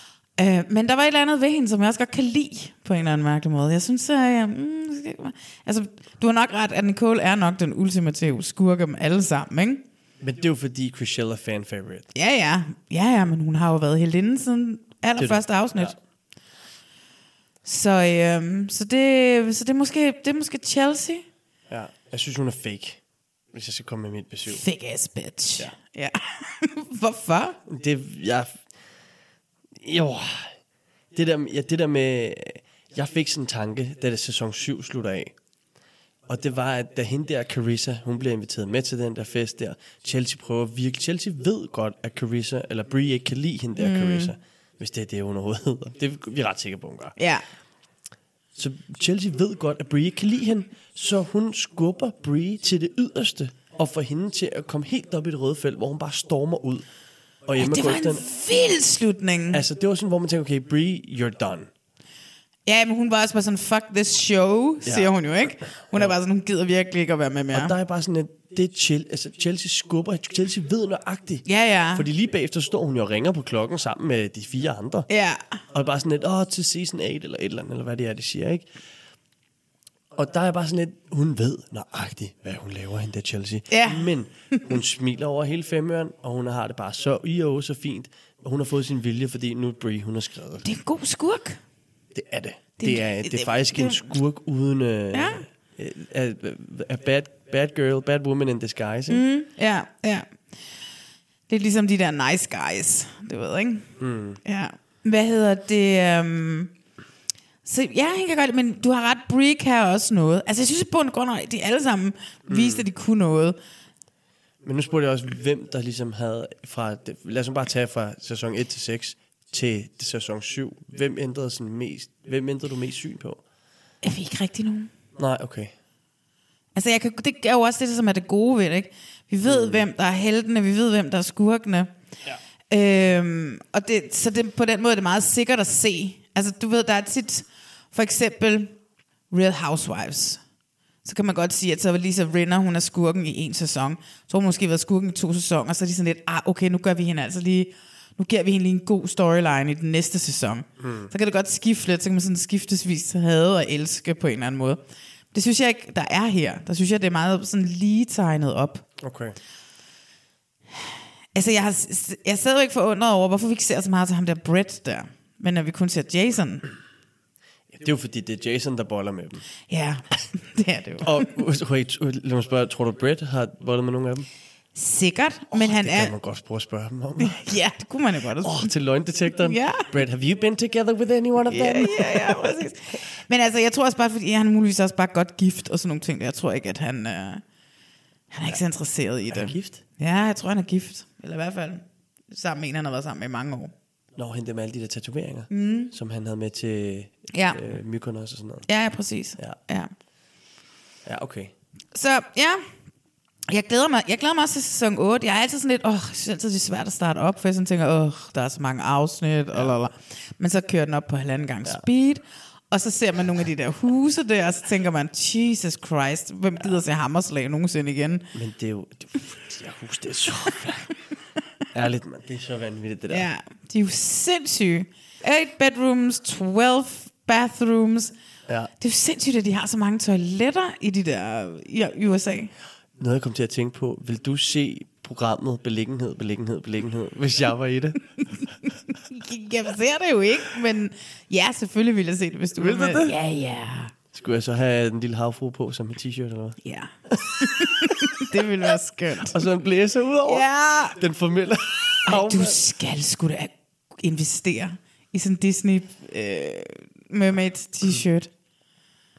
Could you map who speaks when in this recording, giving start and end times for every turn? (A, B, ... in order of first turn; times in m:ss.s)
0:00.4-0:09.8 A
0:10.2-0:12.1 B
0:12.1-0:15.9 A
0:15.2-0:16.0 B
0:17.6-0:21.2 A
0:21.7-0:23.0 B
0:23.5-0:24.6 B
0:24.5-0:27.6 A
0:27.7-0:28.6 B
0:29.8-0:30.6 B
0:31.1-0:35.3 B
0:36.3-0:47.2 B
0:43.8-0:44.4 A
0:47.2-0:47.4 A
0:48.6-0:56.8 B
0:57.5-0:58.2 B
0:57.6-0:59.6 A
0:59.5-1:01.7 B
1:02.7-1:07.7 A
1:04.8-1:05.1 B
1:05.8-1:06.2 B
1:07.5-1:15.1 B
1:11.4-1:12.1 A
1:15.1-1:15.4 A
1:15.7-1:18.6 B
1:20.1-1:30.6 B
1:23.7-1:24.8 A
1:30.6-1:31.6 A
1:32.1-1:39.2 B
1:32.8-1:34.2 A
1:35.1-1:35.4 A
1:39.1-1:40.3 A
1:41.5-1:43.9 A
1:44.0-1:44.4 B
1:44.4-1:46.7 A
1:47.6-1:53.6 A
1:52.5-1:52.9 B
1:54.6-2:03.4 B
2:04.0-2:04.9 A
2:05.2-2:05.7 B
2:06.8-2:11.9 A
2:09.4-2:09.8 B
2:12.7-2:18.8 A
2:19.3-2:20.4 A
2:21.0-2:34.8 A
2:30.8-2:31.1 B
2:35.3-2:38.9 A
2:39.0-2:39.4 B
2:41.3-2:46.6 A
2:47.7-2:49.4 B
2:49.7-2:51.3 A
2:51.0-2:54.3 B
2:54.8-2:56.1 A
2:55.5-2:57.5 B
2:57.2-2:58.7 A
2:58.4-3:02.6 B
2:59.4-2:59.9 A
3:01.5-3:07.4 A
3:08.3-3:13.7 A
3:09.3-3:09.8 B
3:14.2-3:18.7 B
3:15.5-3:15.9 A
3:17.3-3:17.7 A
3:18.7-3:19.9 A
3:21.1-3:21.5 B
3:21.9-3:22.6 A
3:23.5-3:38.3 A
3:38.3-3:40.9 B
3:41.7-3:43.3 B
3:43.1-3:48.1 A
3:48.8-3:52.5 A
3:53.0-3:58.1 B
3:59.1-4:03.9 A
4:02.6-4:03.2 B
4:04.1-4:06.6 B
4:06.6-4:09.4 A
4:07.1-4:07.9 B
4:09.2-4:12.6 B
4:10.3-4:11.0 A
4:12.1-4:18.3 A